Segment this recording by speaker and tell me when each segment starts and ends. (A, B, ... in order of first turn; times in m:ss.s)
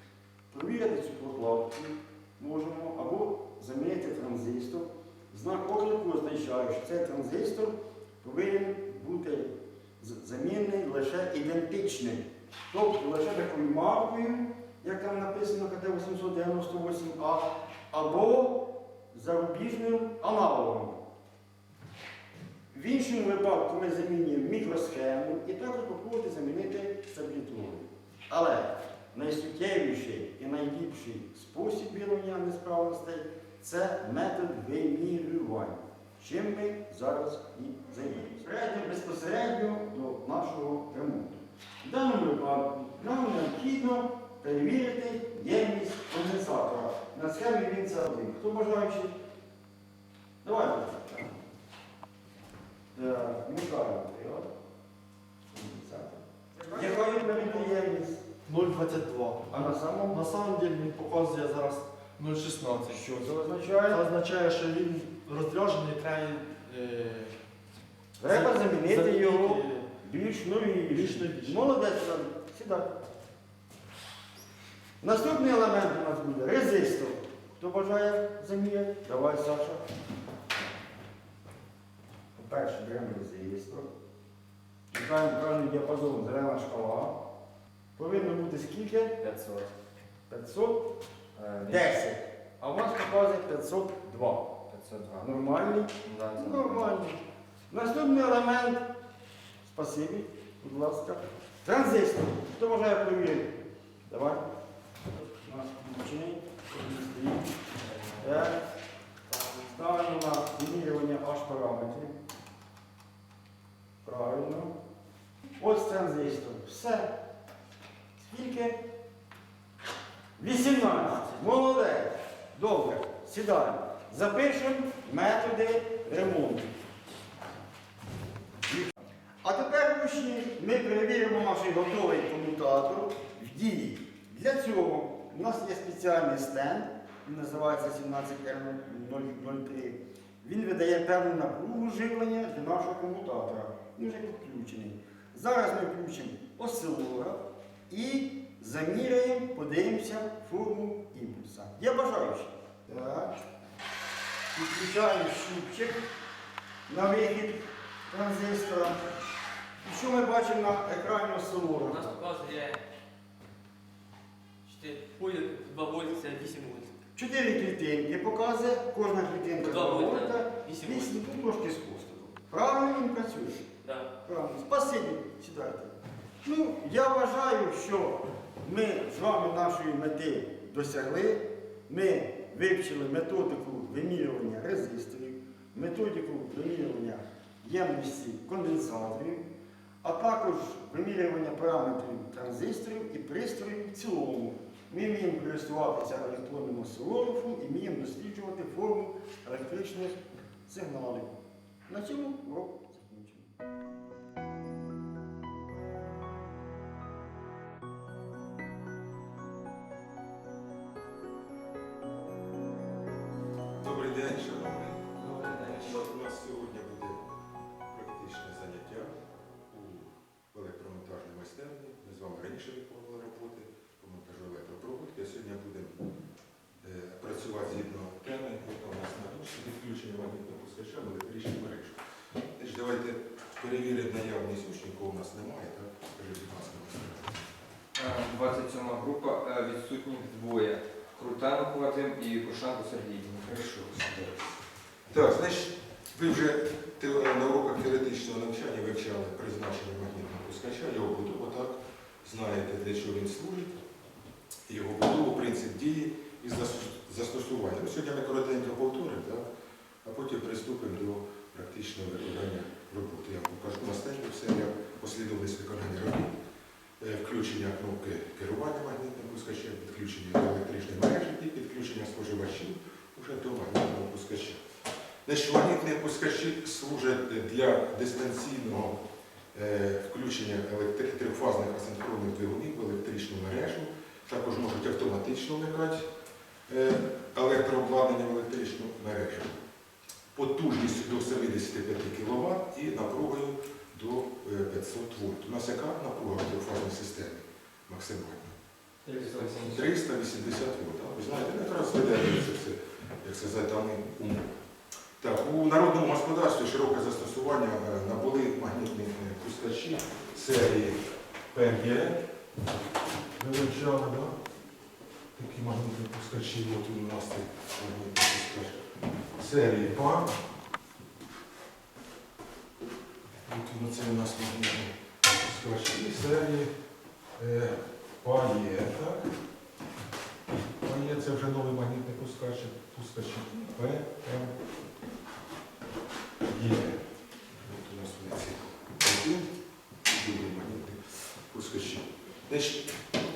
0:00.5-0:21.0 A
0:22.7-0:49.2 A
0:50.4-0:51.3 A
0:52.9-0:54.5 A
0:55.5-0:58.2 A
0:56.6-0:57.7 B
0:58.4-1:03.1 B
0:59.5-1:00.2 A
1:02.8-1:04.0 A
1:03.9-1:07.3 B
1:08.2-1:12.9 A
1:08.2-1:09.9 B
1:10.9-1:11.7 B
1:15.0-1:19.8 A
1:22.4-1:23.9 A
1:24.9-1:27.2 A
1:28.0-1:29.2 A
1:29.2-1:29.7 C
1:30.3-1:30.9 A
1:31.4-1:32.0 C
1:31.6-1:34.5 A
1:34.7-1:35.3 C
1:35.2-1:38.8 A
1:36.0-1:36.8 C
1:39.6-1:44.4 A
1:45.4-1:47.5 A
1:48.2-1:48.6 A
1:49.5-1:52.1 A
1:54.0-1:54.7 A
1:55.6-1:57.1 A
1:58.2-1:58.8 A
2:00.4-2:06.7 A
2:09.4-2:33.3 A
2:34.5-2:36.0 A
2:36.9-2:39.0 A
2:39.8-2:42.1 A
2:41.8-2:42.8 D
2:44.6-2:46.9 D
2:47.2-2:53.7 A
2:49.6-2:51.2 D
2:53.8-2:54.1 D
2:54.2-3:09.4 A
3:10.0-3:23.5 A
3:33.8-3:37.2 E
3:37.9-3:39.2 E
3:39.7-3:46.0 E
3:46.8-3:52.0 E
3:52.6-3:57.5 E
3:57.9-4:03.6 C
4:03.5-4:04.4 E
4:05.1-4:13.8 E
4:14.7-4:19.4 E
4:20.0-4:26.3 E
4:27.0-4:34.6 E
4:35.2-4:39.0 E
4:39.5-4:46.1 E
4:46.7-4:49.6 E
4:50.3-4:58.6 E
4:59.1-4:59.9 C
4:59.4-5:04.5 E
5:05.2-5:11.0 E
5:11.5-5:12.2 E
5:13.4-5:14.4 E
5:15.3-5:18.8 E
5:19.4-5:20.4 E
5:23.4-5:26.7 E
5:27.4-5:29.3 E
5:30.8-5:34.6 E
5:36.4-5:37.0 E
5:37.6-5:39.5 E
5:40.1-5:42.9 E